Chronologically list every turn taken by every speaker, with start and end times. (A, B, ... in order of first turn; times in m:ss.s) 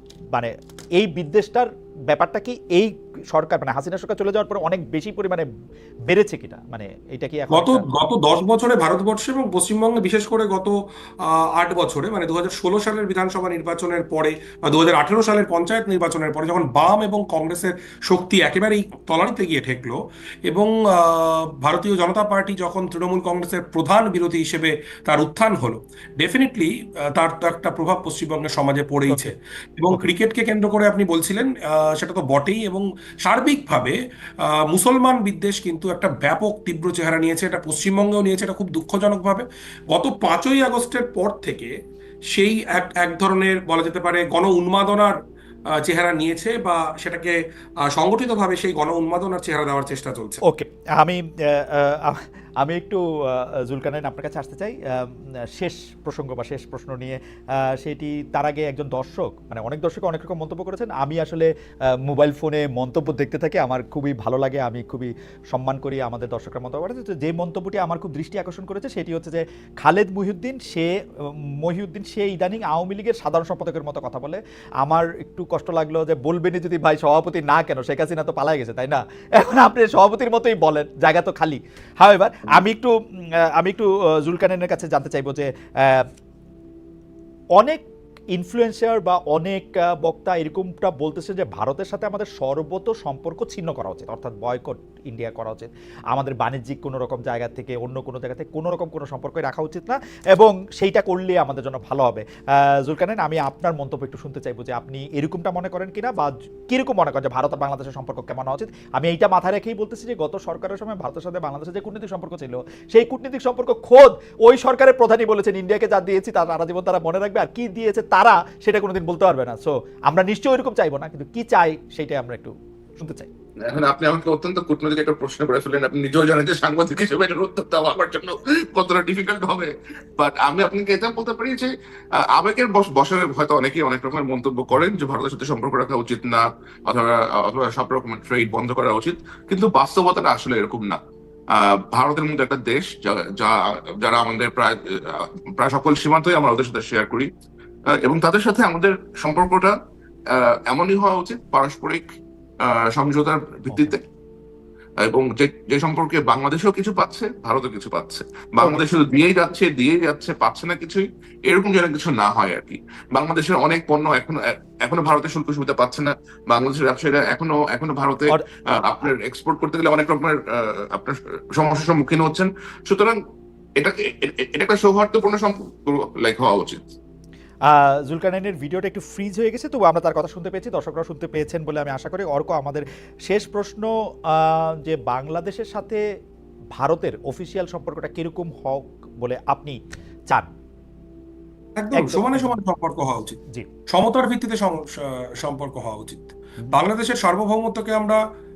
0:00.3-0:05.5 A
0:06.1-0:07.9 A
0:07.5-0:41.7 B
0:42.3-0:45.2 B
0:45.7-0:47.4 B
0:47.9-0:50.4 B
0:50.5-1:26.1 A
1:27.6-2:03.3 A
2:03.6-2:21.0 C
2:21.5-2:27.3 C
2:27.9-2:29.8 C
2:30.3-2:32.1 C
2:32.6-2:34.0 C
2:35.0-2:53.2 C
2:53.8-2:56.9 C
2:57.7-3:06.0 A
3:06.8-3:09.8 A
3:11.8-3:13.4 B
3:11.9-3:12.6 A
3:13.9-3:18.2 B